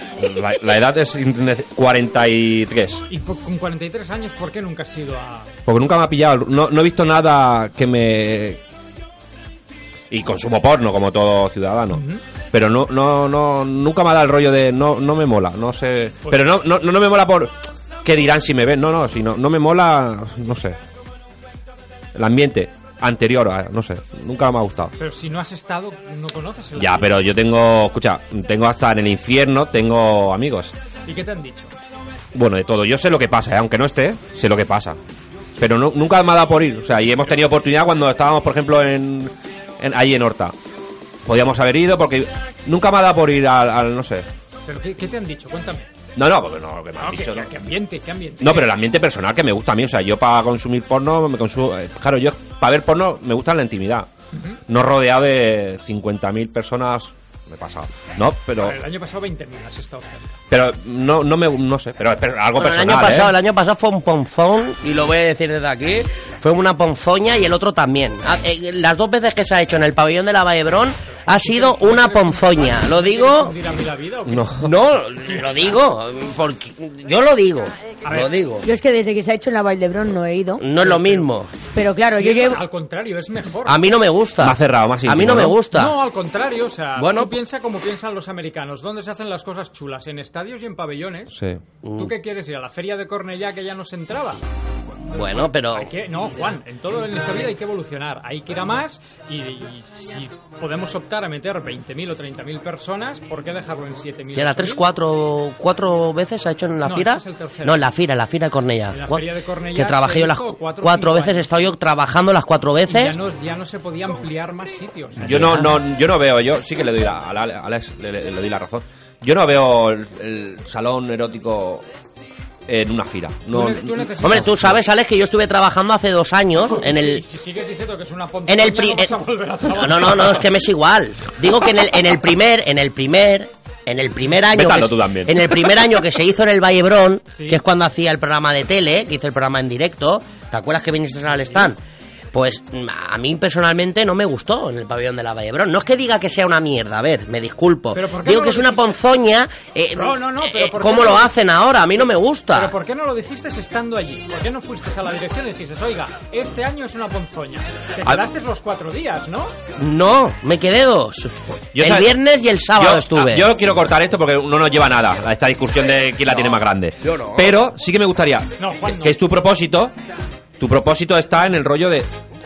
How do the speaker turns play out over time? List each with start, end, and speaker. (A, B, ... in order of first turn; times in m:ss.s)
0:00.2-0:03.0 A
0:03.1-0:05.5 B
0:05.7-0:08.6 A
0:10.1-0:20.8 A
0:11.9-0:12.2 B
0:22.2-0:25.0 A
0:25.0-0:27.2 B
0:26.8-0:30.7 A
0:31.1-0:31.7 B
0:32.3-0:35.0 A
0:35.6-0:40.5 A
0:41.2-0:44.3 A
0:44.7-0:45.9 B
0:46.2-0:47.6 A
0:47.0-0:48.7 B
0:48.4-0:54.1 A
0:54.3-0:54.6 B
0:54.7-0:58.8 A
0:58.6-1:00.3 B
1:00.5-1:03.3 A
1:02.6-1:13.6 C
1:11.1-1:14.5 B
1:14.3-1:14.7 A
1:14.6-1:18.7 C
1:18.0-1:18.3 B
1:18.6-1:20.6 D
1:20.6-1:21.5 C
1:20.8-1:21.3 B
1:21.7-1:22.6 D
1:22.1-1:24.0 B
1:23.7-1:26.0 C
1:24.4-1:25.6 A
1:25.7-1:31.4 B
1:27.0-1:27.4 C
1:31.3-1:31.6 A
1:31.8-1:32.1 C
1:32.0-1:34.4 B
1:35.1-1:35.9 C
1:35.3-1:44.8 B
1:44.4-1:53.2 C
1:46.8-1:47.8 B
1:48.9-1:51.5 B
1:52.9-1:55.5 B
1:55.2-2:01.8 A
1:55.2-1:55.7 C
2:02.7-2:04.8 A
2:03.5-2:04.5 B
2:04.2-2:07.2 C
2:06.7-2:10.4 B
2:08.5-2:09.2 C
2:09.8-2:21.8 C
2:14.5-2:15.6 A
2:17.3-2:17.6 B
2:22.3-2:32.7 C
2:27.9-2:29.0 B
2:29.9-2:31.3 B
2:32.5-2:39.5 B
2:39.8-2:43.5 C
2:41.7-2:42.2 A
2:42.8-2:49.9 A
2:47.0-2:47.7 C
2:48.6-2:49.2 B
2:50.6-2:52.1 A